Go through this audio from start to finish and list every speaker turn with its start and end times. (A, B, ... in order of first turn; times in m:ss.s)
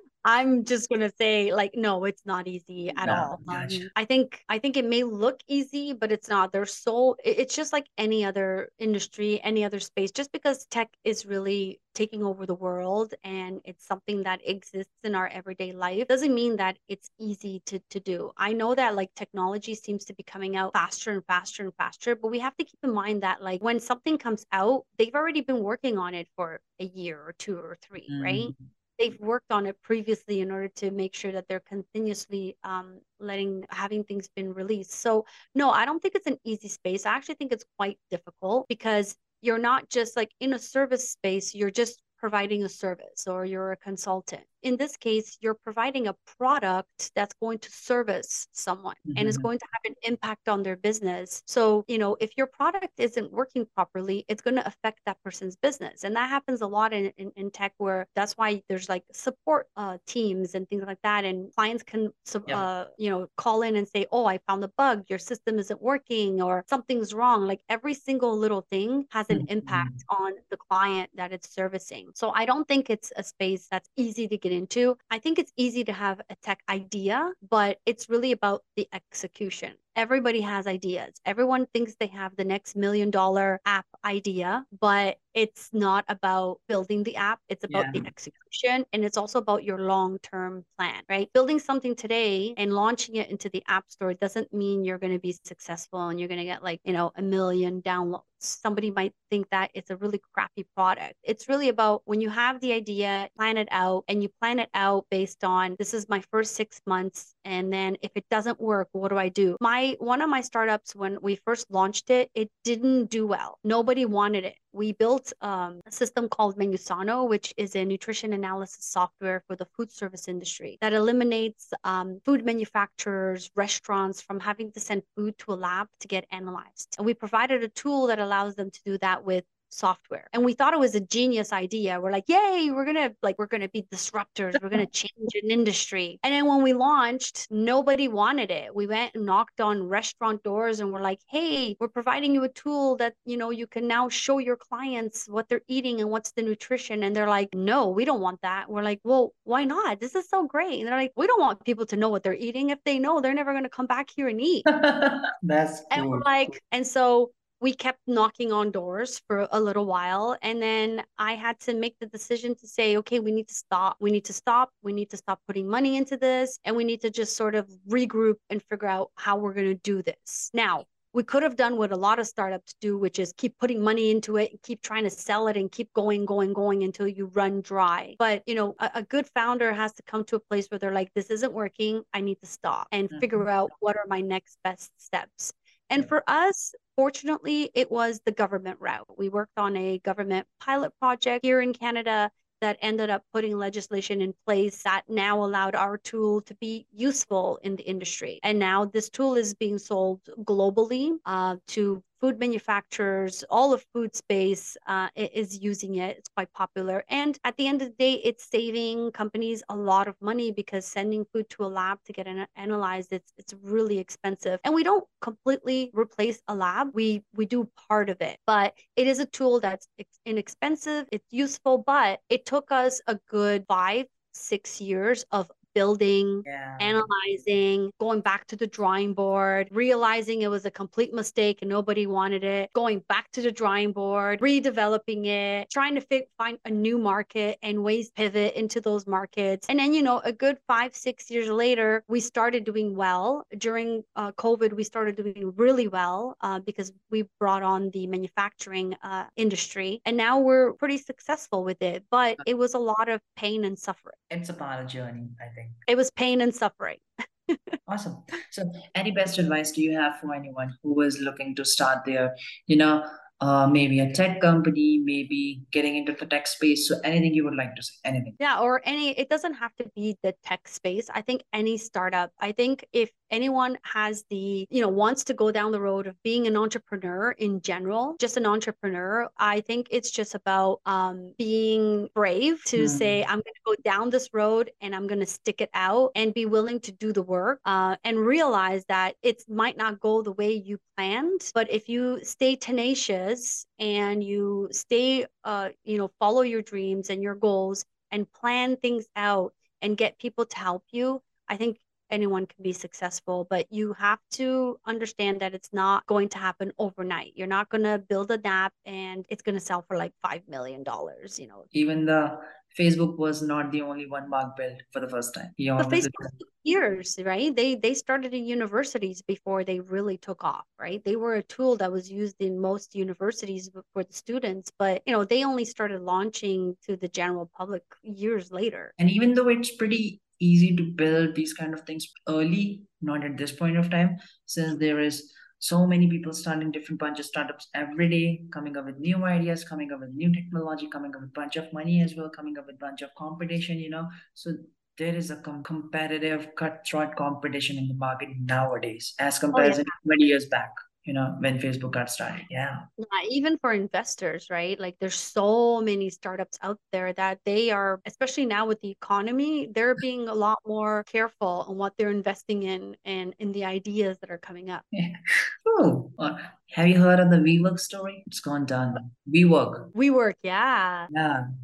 0:00.2-2:34.6 A
0:02.9-0:03.9 B
0:28.1-0:28.6 B
0:49.0-0:49.5 B
1:09.3-1:10.0 B
1:27.7-1:28.0 B
2:34.7-2:36.5 B
2:35.9-4:14.2 A
3:03.1-3:03.4 B
3:46.5-3:47.0 B
4:14.3-4:15.8 B
4:15.9-4:17.8 A
4:17.9-4:28.4 B
4:28.4-5:11.7 A
4:42.8-4:43.2 B
5:11.7-5:16.3 B
5:15.8-5:28.9 A
5:29.0-5:52.8 B
5:49.5-5:49.8 A
5:53.0-6:04.8 A
6:04.9-6:09.9 B
6:09.9-6:11.1 A
6:11.1-6:11.4 B